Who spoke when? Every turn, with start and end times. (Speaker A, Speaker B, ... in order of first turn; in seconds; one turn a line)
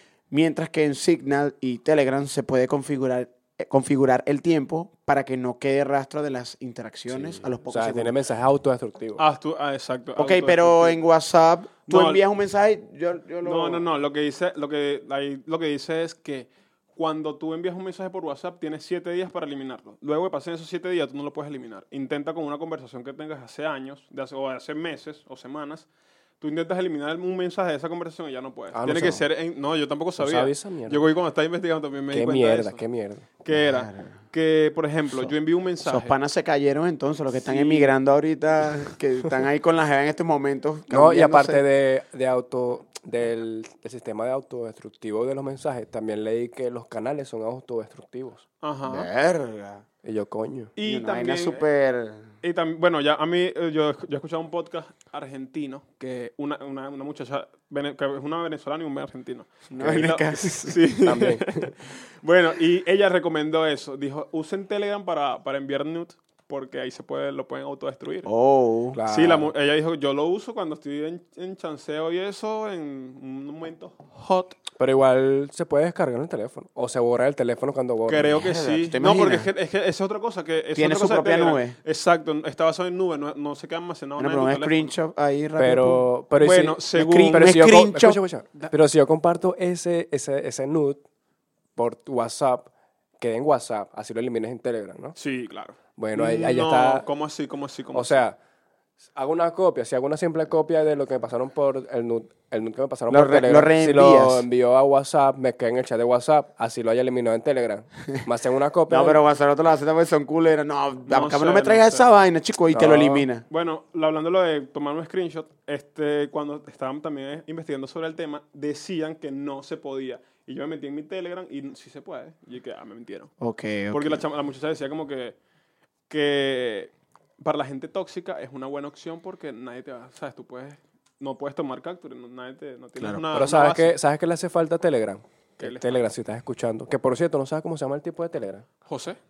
Speaker A: 0.3-8.2
Speaker B: 7.1-9.2
Speaker C: 9.2-11.0
Speaker A: 10.2-13.8
Speaker C: 11.9-12.2
Speaker C: 13.4-25.9
Speaker C: 26.4-32.8
Speaker B: 28.7-29.3
Speaker B: 30.2-31.1
Speaker B: 32.1-33.3
Speaker C: 33.4-36.1
Speaker A: 33.5-34.1
Speaker A: 35.8-41.6
Speaker C: 37.4-37.9
Speaker B: 40.9-48.5
Speaker C: 48.6-49.1
Speaker A: 48.9-49.9
Speaker B: 50.0-50.7
Speaker C: 50.8-51.6
Speaker A: 50.8-52.3
Speaker C: 52.4-68.3
Speaker A: 59.7-60.8
Speaker B: 59.8-60.1
Speaker B: 61.0-61.7
Speaker A: 68.3-69.0
Speaker B: 68.9-69.5
Speaker C: 69.1-74.6
Speaker B: 74.8-78.4
Speaker C: 78.1-84.9
Speaker A: 78.4-79.5
Speaker A: 80.8-81.8
Speaker A: 84.2-86.1
Speaker B: 85.6-91.0
Speaker C: 86.4-87.5
Speaker A: 87.0-88.2
Speaker B: 91.8-95.2
Speaker C: 95.2-98.2
Speaker B: 96.0-97.1
Speaker B: 97.9-98.4
Speaker B: 99.2-109.2
Speaker A: 103.1-104.5
Speaker A: 108.9-113.5
Speaker C: 111.1-112.1
Speaker B: 112.7-113.3
Speaker C: 113.5-123.3
Speaker A: 123.4-124.2
Speaker C: 123.9-125.4
Speaker C: 126.1-134.0
Speaker A: 133.0-133.2
Speaker B: 133.3-138.7
Speaker C: 135.6-136.0
Speaker C: 138.9-139.2